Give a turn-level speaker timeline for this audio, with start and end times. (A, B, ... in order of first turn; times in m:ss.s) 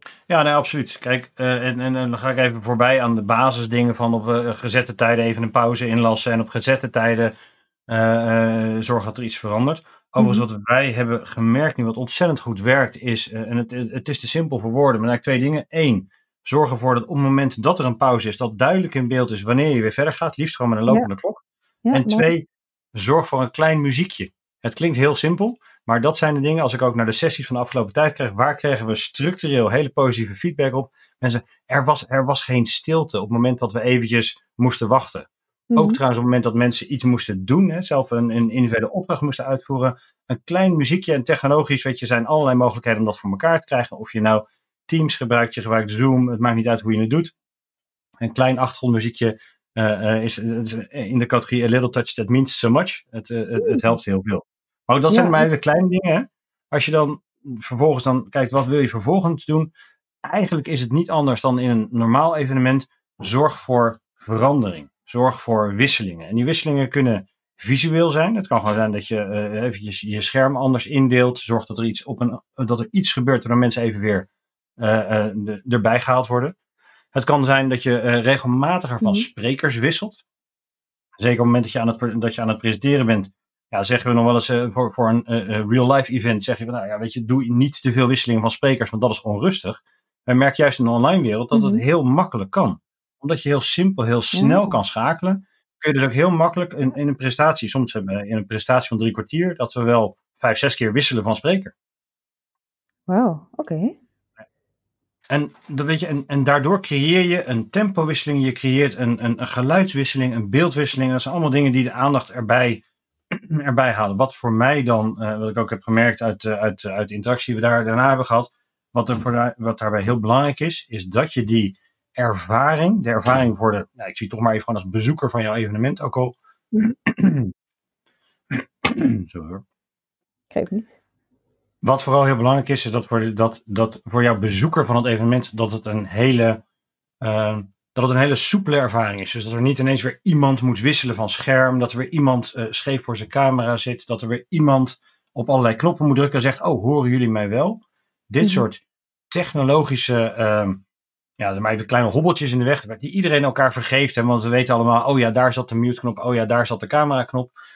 0:00.3-0:07.3 A
0:07.9-0:47.3 A
0:10.2-0:10.4 B
0:21.8-0:22.3 B
0:35.7-0:36.0 B
0:48.2-0:59.7 A
0:53.6-0:53.9 B
0:55.1-0:55.5 B
1:00.2-1:14.3 A
1:14.8-1:16.6 A
1:17.1-1:20.2 A
1:19.0-1:19.3 B
1:21.2-1:41.7 A
1:31.5-1:31.8 B
1:34.3-1:34.8 B
1:43.1-1:44.0 B
1:45.3-2:07.5 A
2:08.5-2:09.6 A
2:10.5-2:10.9 B
2:11.8-2:16.6 A
2:17.2-2:30.8 A
2:31.4-2:37.5 A